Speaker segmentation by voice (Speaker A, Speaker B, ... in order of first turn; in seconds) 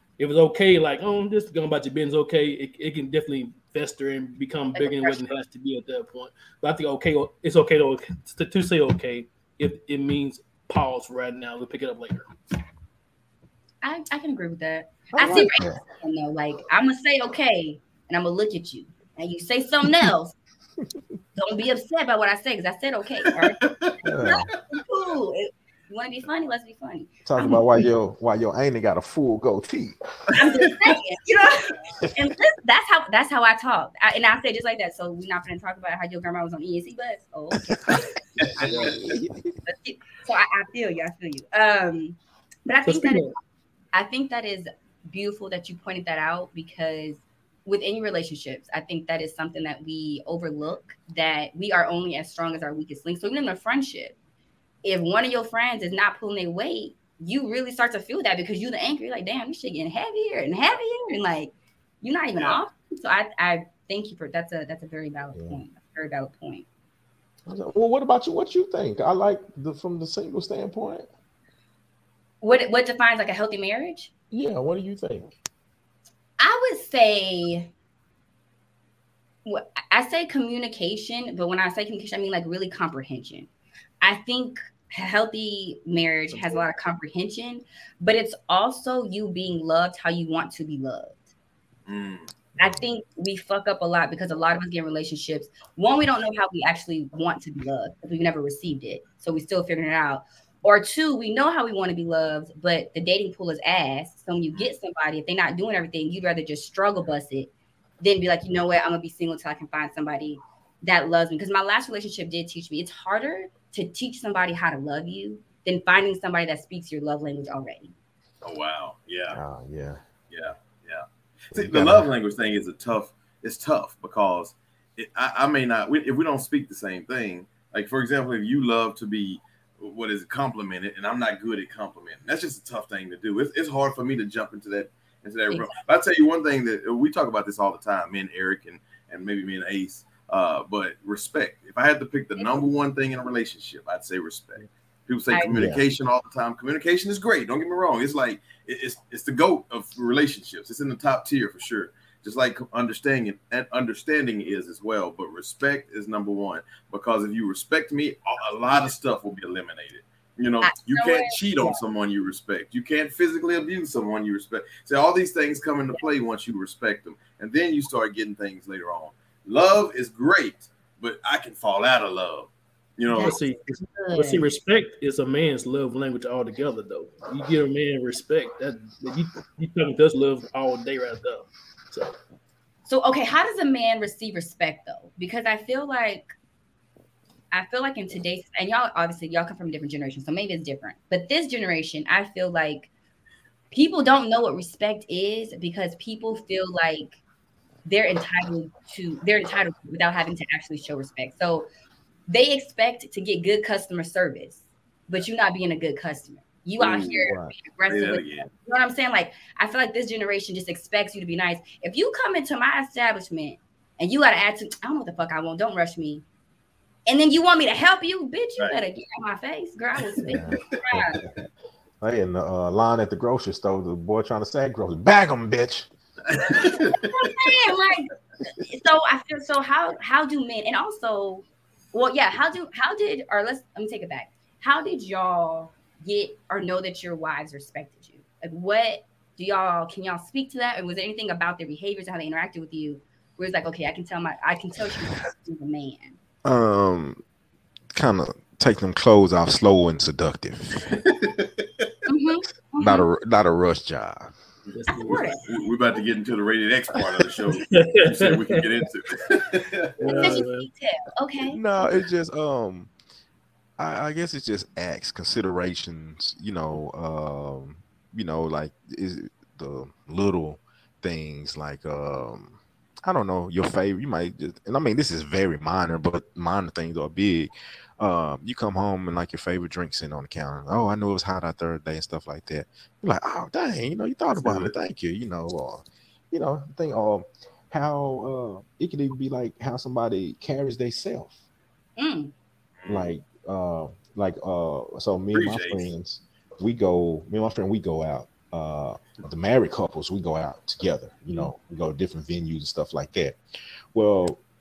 Speaker A: 0.2-12.2, 42.9-43.3, 86.3-86.6, 173.1-182.1, 254.7-255.2, 257.5-258.6, 260.0-260.7
Speaker B: 4.7-5.2, 13.8-20.4, 21.3-23.6, 24.2-27.6, 30.4-37.8, 38.5-39.0, 39.6-43.3, 43.9-54.1, 54.8-66.6, 72.4-74.1, 76.4-77.7, 79.4-83.5, 84.0-91.2, 92.6-117.9, 135.5-135.8, 142.3-142.6, 160.6-161.8, 173.1-174.4, 182.9-186.3, 187.5-192.9, 193.7-197.2, 197.8-201.7, 202.3-216.2, 217.1-221.2, 227.1-246.2, 252.1-253.0, 254.9-255.4, 260.0-261.6, 292.0-292.3
Speaker C: 15.1-15.8, 24.0-24.5, 27.2-30.4, 38.5-39.6, 65.3-65.6, 67.5-71.1, 74.3-75.3, 92.6-92.8, 119.3-120.0, 121.5-122.1, 145.5-145.8, 207.3-207.5, 220.3-221.3, 222.0-225.9, 226.5-226.7, 246.4-247.2, 247.9-250.9, 252.8-254.3, 261.5-262.9, 263.8-291.3, 292.9-303.4, 303.9-304.4
Speaker D: 23.6-24.1, 38.4-39.1, 62.4-62.6, 91.9-92.3, 118.4-119.4, 120.3-173.4, 206.8-207.3, 207.9-208.5, 226.3-227.1, 250.8-251.9, 255.1-260.4, 284.3-284.7, 292.8-293.1, 295.3-295.9